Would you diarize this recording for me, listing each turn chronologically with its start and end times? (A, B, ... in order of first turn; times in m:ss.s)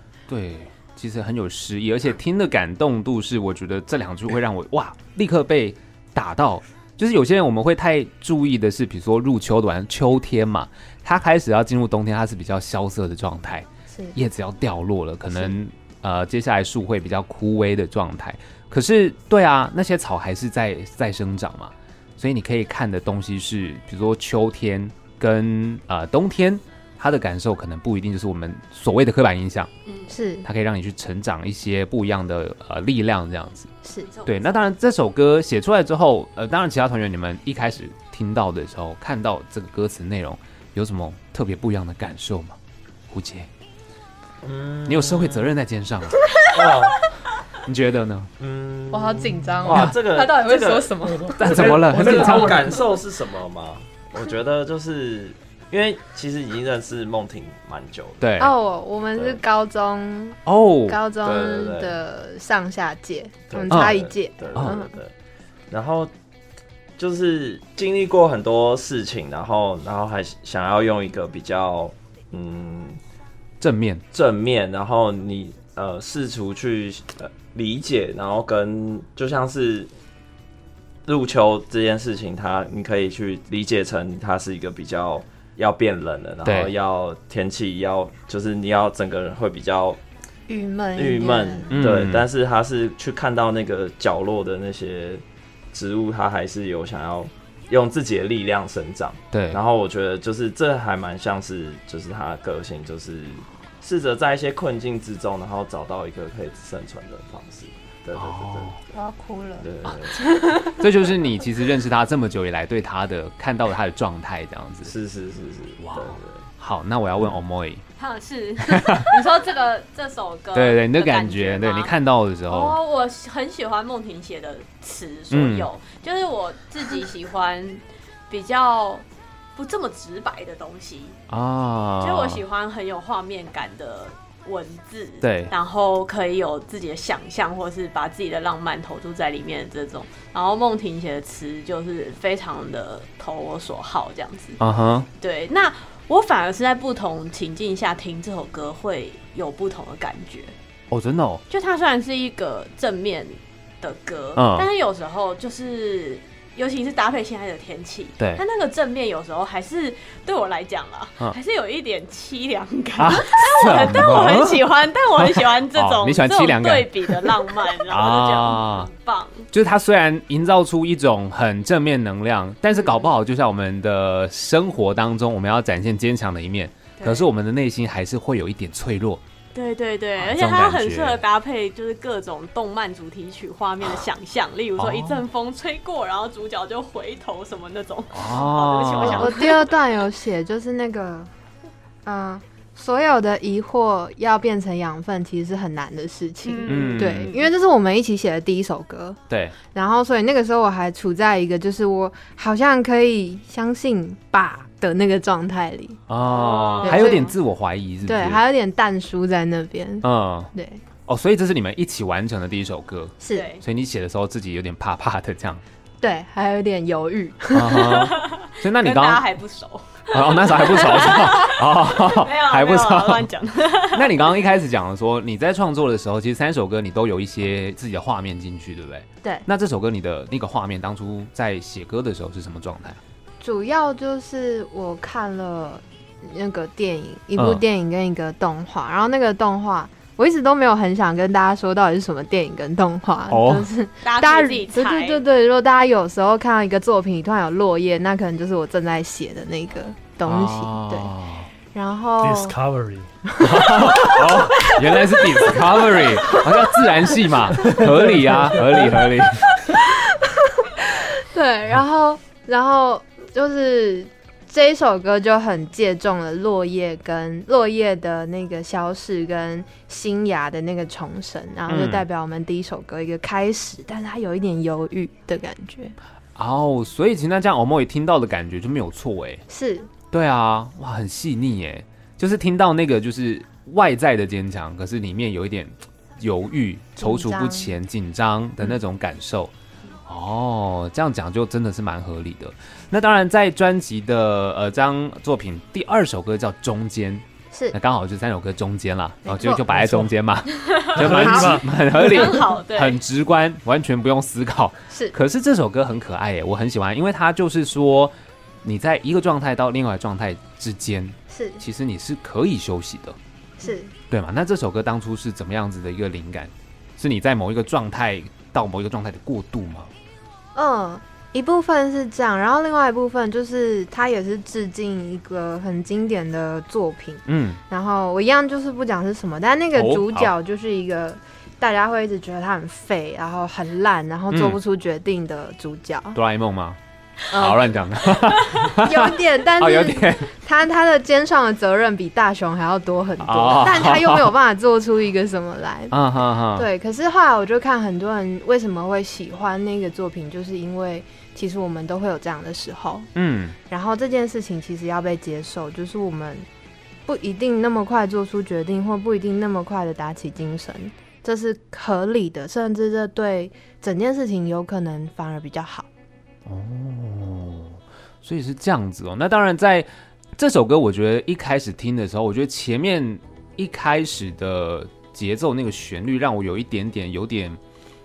0:00.3-0:29.7 A
0:13.9-0:14.2 B
0:29.9-0:30.1 C
0:30.1-0:30.5 B
0:30.4-0:33.7 A
0:34.0-0:34.7 C
0:34.3-0:42.6 A
0:43.1-0:43.5 A
0:44.4-0:45.5 D
0:44.9-0:46.2 A
0:46.4-0:47.0 D
0:47.6-0:48.3 A
0:48.4-0:58.2 D
0:48.9-0:51.4 B
0:49.7-0:49.9 A
0:51.0-0:52.8 E
0:51.4-0:52.7 A
0:58.2-0:58.5 A
0:58.4-1:05.0 B
1:00.5-1:01.0 A
1:01.2-1:02.0 D
1:03.5-1:05.1 D
1:03.7-1:04.0 A
1:05.7-1:06.1 D
1:07.0-1:13.0 D
1:13.6-1:14.0 A
1:14.1-1:19.9 D
1:21.1-1:30.0 D
1:26.4-1:26.7 A
1:30.5-1:31.7 B
1:31.0-1:48.8 D
1:31.7-1:32.2 A
1:39.3-1:39.6 A
1:48.2-1:48.8 A
1:48.9-1:50.8 B
1:49.6-1:50.5 D
1:50.6-1:54.9 A
1:54.8-1:56.5 D
1:55.8-1:57.8 A
1:58.0-2:01.9 C
1:58.6-1:59.1 A
2:00.6-2:02.8 A
2:02.5-2:11.2 C
2:05.3-2:05.7 A
2:11.3-2:12.4 A
2:12.0-2:24.6 C
2:15.2-2:15.5 A
2:24.6-2:25.1 A
2:25.2-2:30.5 C
2:30.9-2:31.4 A
2:31.5-2:49.5 C
2:34.4-2:34.7 A
2:43.0-2:44.6 A
2:45.2-2:48.9 A
2:49.5-2:59.2 A
2:57.0-2:57.3 C
2:59.5-3:10.0 C
3:00.2-3:01.2 A
3:04.8-3:05.2 A
3:08.1-3:09.4 A
3:09.0-3:11.3 B
3:12.0-3:19.2 B
3:16.4-3:17.5 C
3:16.7-3:17.4 A
3:19.3-3:19.6 A
3:19.7-3:26.0 B
3:26.1-3:28.4 A
3:26.3-3:27.3 C
3:26.8-3:27.3 B
3:28.0-3:30.8 B
3:30.0-3:30.5 A
3:31.1-3:35.6 A
3:33.2-3:33.5 B
3:33.3-3:33.6 C
3:36.0-3:38.1 B
3:37.5-3:39.3 A
3:37.8-3:44.4 C
3:40.1-3:43.3 A
3:43.9-3:53.0 A
3:53.4-4:11.1 B
3:57.4-3:57.6 A
4:03.3-4:03.7 A
4:04.0-4:05.2 C
4:10.2-4:11.5 A
4:11.7-4:12.6 B
4:12.2-4:14.2 E
4:13.4-4:16.8 B
4:13.4-4:19.5 A
4:17.6-4:18.9 E
4:19.4-4:35.9 B
4:31.7-4:32.0 A
4:36.4-4:39.4 A
4:39.5-4:39.9 B
4:40.1-4:49.5 A
4:47.0-4:47.7 B
4:50.1-5:13.2 A
4:59.2-4:59.6 B
4:59.7-5:00.1 E
5:00.9-5:01.8 E
5:01.1-5:01.6 B
5:01.9-5:03.0 C
5:04.9-5:05.2 B
5:11.3-5:11.6 B
5:13.6-5:13.9 B
5:14.1-5:19.9 A
5:20.6-5:36.2 B
5:27.3-5:27.6 A
5:29.7-5:30.3 A
5:34.3-5:34.6 A
5:36.2-5:36.8 A
5:37.3-5:37.6 B
5:37.3-5:40.3 A
5:38.7-5:46.0 B
5:43.2-5:44.3 A
5:45.9-5:46.7 A
5:46.6-5:53.1 B
5:53.2-5:53.6 A
5:53.7-5:56.5 B
5:57.1-6:05.9 B
6:06.5-6:17.6 A